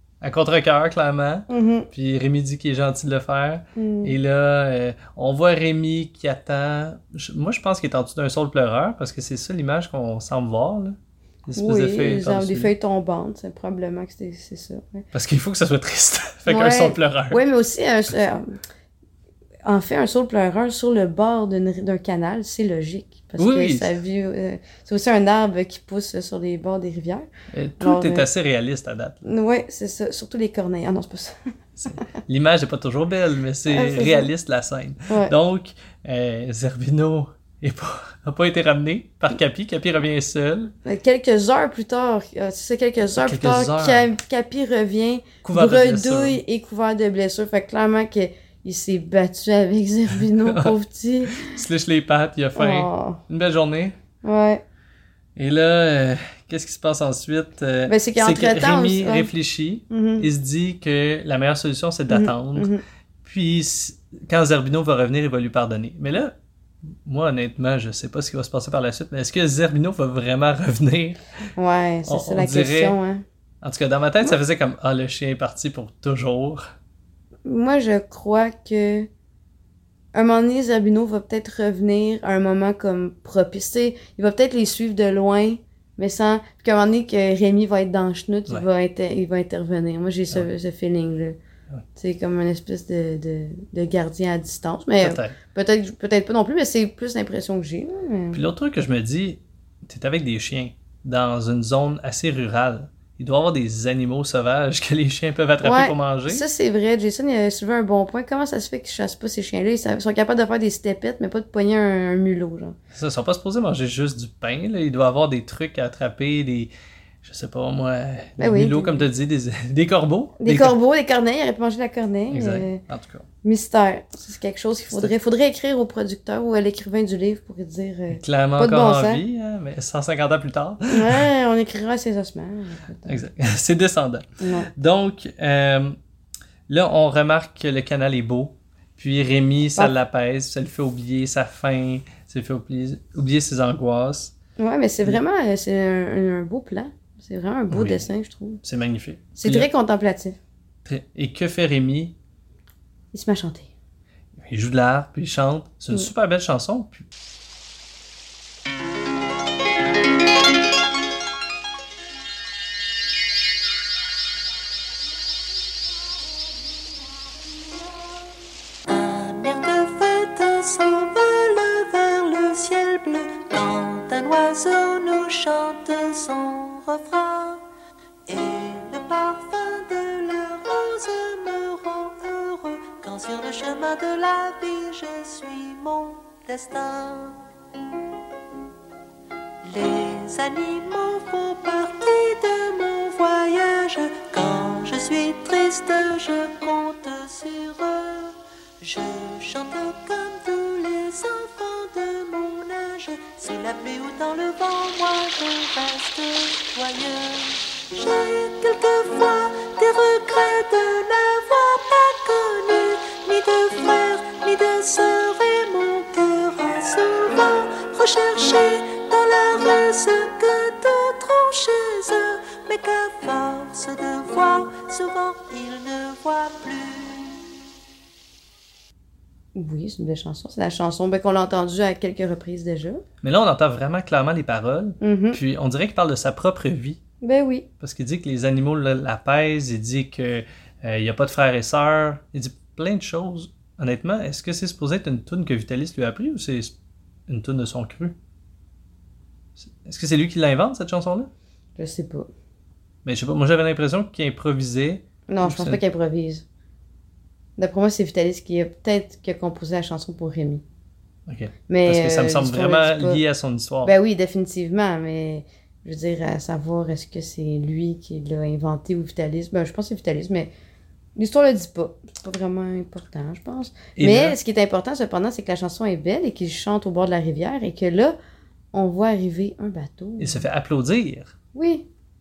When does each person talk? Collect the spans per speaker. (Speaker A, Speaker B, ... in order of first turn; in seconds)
Speaker A: 0.2-12.7, 15.1-17.4, 23.4-23.9, 27.5-29.2, 31.8-40.7, 43.1-44.1, 45.4-46.4, 50.2-50.8, 51.3-54.0, 55.4-62.7, 63.2-66.3, 67.0-71.2, 72.1-73.0, 73.6-76.6, 95.0-95.4, 98.3-106.4, 112.9-116.7, 117.2-120.8, 122.3-123.2, 128.1-131.2, 133.1-135.9, 136.7-144.3, 147.7-148.0, 148.6-149.7, 150.8-152.1, 154.4-157.0, 233.2-237.0, 237.8-246.7, 247.3-248.1, 249.6-251.3, 253.0-255.8, 261.3-263.9, 274.0-274.4, 280.2-281.3
Speaker B: 1.5-1.9, 3.8-4.1, 11.6-15.0, 16.5-18.6, 19.6-27.2, 27.8-28.3, 29.2-31.3, 33.7-34.3, 40.8-51.5, 52.5-53.2, 54.2-54.6, 57.9-59.3, 59.9-60.3, 62.1-62.8, 71.6-73.2, 77.4-79.1, 80.1-91.4, 92.0-98.4, 105.6-112.8, 118.4-119.0, 120.4-122.8, 123.4-129.2, 130.9-133.2, 134.4-134.7, 144.6-148.6, 149.4-150.4, 153.1-153.7, 229.5-233.0, 235.0-235.4, 237.2-237.7, 251.8-252.3, 255.3-256.4, 257.6-260.6, 261.7-263.2, 263.8-270.5, 271.2-278.1, 278.7-280.4, 281.5-281.9
Speaker C: 168.9-177.6, 178.3-187.4, 189.6-227.4